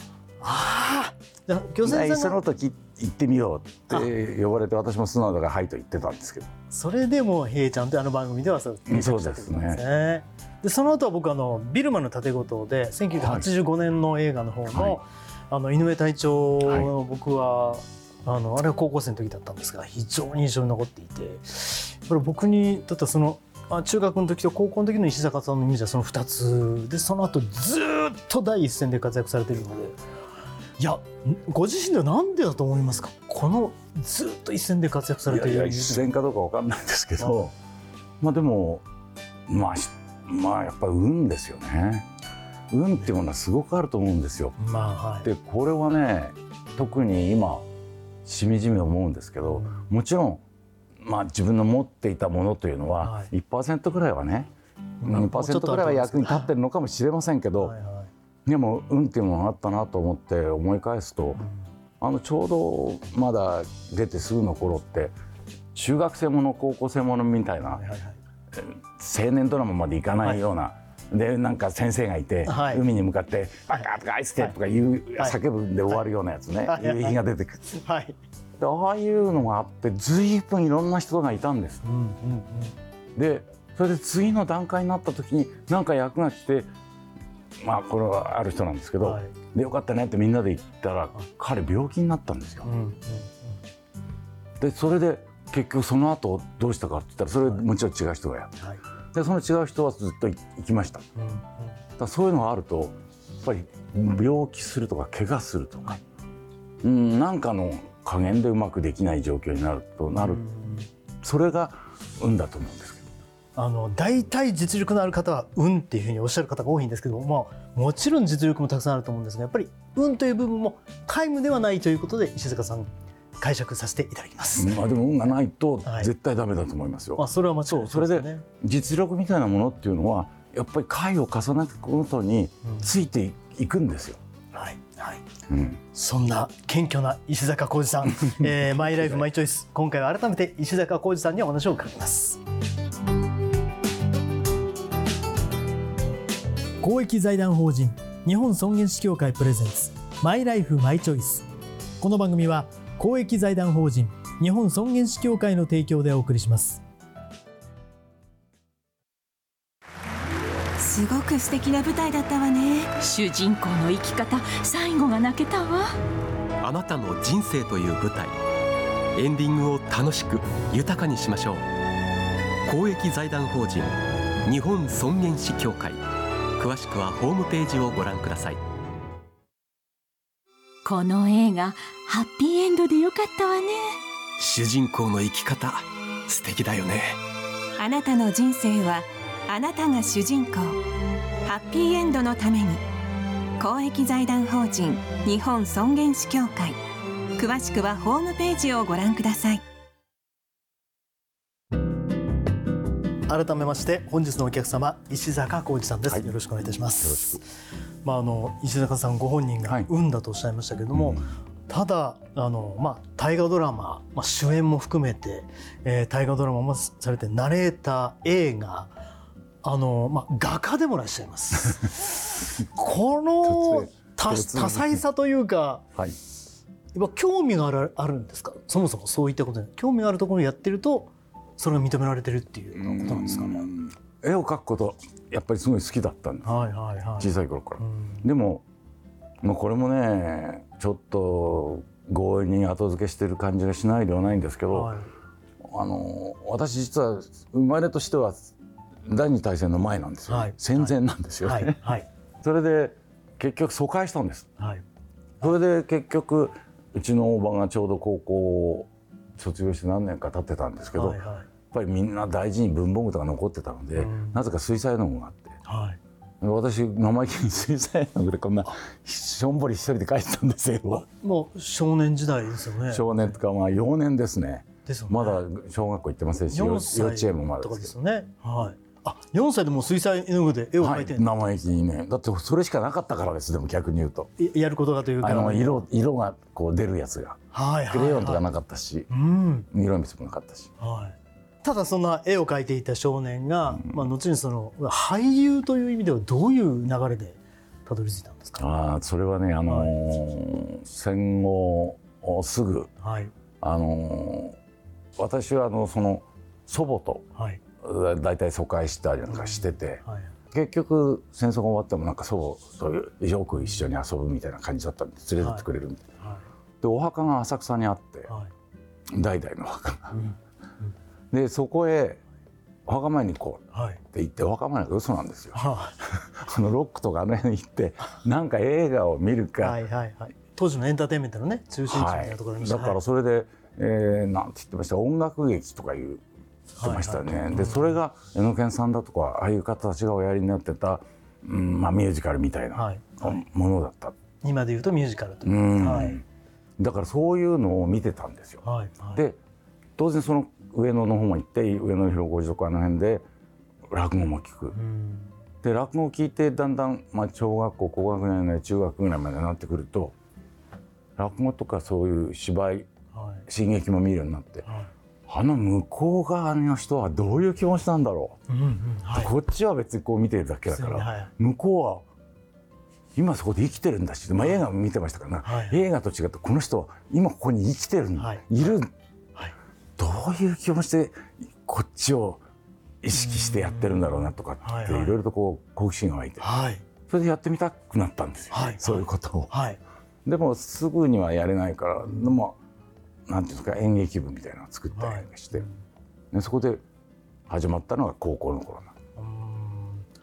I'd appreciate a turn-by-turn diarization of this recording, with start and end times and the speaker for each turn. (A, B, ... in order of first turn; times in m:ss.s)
0:00.4-0:02.4 A
0:01.8-0:06.5 B
0:06.7-0:30.0 A
0:08.9-0:09.8 B
0:13.2-0:13.5 B
0:14.7-0:15.0 B
0:16.6-0:16.9 B
0:30.8-0:36.1 A
0:35.3-0:37.5 B
0:37.2-0:37.5 A
0:38.2-0:38.8 B
0:39.5-0:42.1 B
0:42.7-0:44.6 B
0:44.6-0:45.3 A
0:45.2-0:47.7 B
0:48.2-0:50.4 B
0:49.5-0:49.9 A
0:51.0-0:54.5 B
0:53.0-0:53.3 A
0:55.0-0:56.5 A
0:55.0-0:57.7 B
0:57.6-0:58.1 A
0:58.5-1:01.4 B
1:01.4-1:01.6 A
1:02.0-1:05.1 B
1:05.7-1:07.8 B
1:07.7-1:08.2 A
1:08.5-1:17.7 B
1:12.4-1:12.8 A
1:16.7-1:18.2 A
1:18.6-1:21.8 B
1:21.8-1:22.8 A
1:23.2-1:26.7 B
1:27.6-1:32.7 B
1:29.0-1:29.3 A
1:32.6-1:33.5 A
1:34.6-1:38.6 B
1:39.1-1:41.1 B
1:41.2-1:41.7 A
1:42.0-1:46.0 B
1:46.8-1:50.4 B
1:50.1-1:50.9 A
1:51.2-1:53.1 B
1:53.6-2:04.8 A
2:04.6-2:14.2 B
2:05.8-2:06.1 A
2:07.2-2:08.4 A
2:14.5-2:15.2 A
2:15.5-2:15.8 B
2:15.9-2:22.4 A
2:18.2-2:19.2 B
2:26.8-2:31.5 A
2:32.0-2:36.8 A
2:40.8-2:43.0 C
2:43.0-2:46.0 D
2:46.6-2:48.4 E
2:49.2-2:51.7 E
2:52.7-2:56.0 E
2:56.6-2:58.6 E
3:00.8-3:04.0 D
3:04.4-3:07.2 E
3:07.8-3:10.8 C
3:11.5-3:12.8 C
3:13.6-3:16.8 C
3:17.4-3:19.6 C
3:23.3-3:27.4 A
3:27.0-3:27.4 B
3:28.0-3:38.9 A
3:30.9-3:31.3 B
3:39.6-3:45.9 A
3:43.4-3:45.0 B
3:47.0-3:53.7 A
3:52.8-3:56.6 B
3:56.4-3:58.2 A
3:57.2-3:58.6 B
3:59.4-4:04.9 B
4:04.7-4:05.1 A
4:05.6-4:08.5 B
4:09.1-4:11.9 B
4:10.3-4:10.9 A
4:11.4-4:12.1 A
4:12.4-4:14.5 B
4:15.4-4:21.2 B
4:21.0-4:21.5 A
4:21.7-4:25.6 B
4:24.0-4:24.4 A
4:25.6-4:26.0 A
4:26.4-4:31.1 B
4:31.2-4:33.3 A
4:32.9-4:37.9 B
4:34.9-4:35.4 A
4:36.5-4:41.3 A
4:40.8-4:44.3 B
4:44.4-4:45.8 A
4:45.2-4:49.1 B
4:47.5-4:48.4 A
4:49.1-4:49.7 A
4:49.7-4:50.7 B
4:50.8-4:58.6 A
4:53.7-4:54.0 B
4:58.6-5:02.9 B
4:59.7-4:59.9 A
5:03.0-5:03.3 A
5:03.6-5:04.6 B
5:05.2-5:07.2 B
5:07.4-5:07.6 A
5:07.8-5:16.0 B
5:09.3-5:10.3 A
5:15.4-5:15.7 A
5:16.8-5:18.3 B
5:19.1-5:20.2 B
5:21.3-5:22.2 B
5:22.9-5:29.8 B
5:23.7-5:24.0 A
5:25.5-5:26.0 A
5:29.6-5:33.0 A
5:31.9-5:36.2 B
5:36.8-5:37.9 A
5:36.8-5:44.2 B
5:42.7-5:43.4 A
5:44.4-5:46.2 A
5:45.4-5:46.2 B
5:46.8-5:49.4 B
5:48.6-5:49.2 A
5:50.0-5:53.3 B
5:53.9-5:54.8 B
5:54.7-5:55.3 A
5:55.6-6:00.2 B
6:01.2-6:02.9 B
6:03.1-6:03.5 A
6:03.5-6:04.7 B
6:04.7-6:04.9 A
6:05.3-6:08.4 B
6:08.5-6:09.3 A
6:09.1-6:12.0 B
6:10.7-6:11.3 A
6:13.2-6:18.9 B
6:15.4-6:15.8 A
6:20.0-6:22.4 B
6:23.0-6:26.6 B
6:23.2-6:24.0 A
6:24.6-6:25.2 A
6:26.4-6:26.8 A
6:27.1-6:29.5 B
6:28.5-6:29.8 A
6:30.2-6:32.6 B
6:33.3-6:35.6 B
6:35.0-6:35.8 A
6:36.3-6:36.8 B
6:37.5-6:38.9 B
6:39.2-6:40.1 A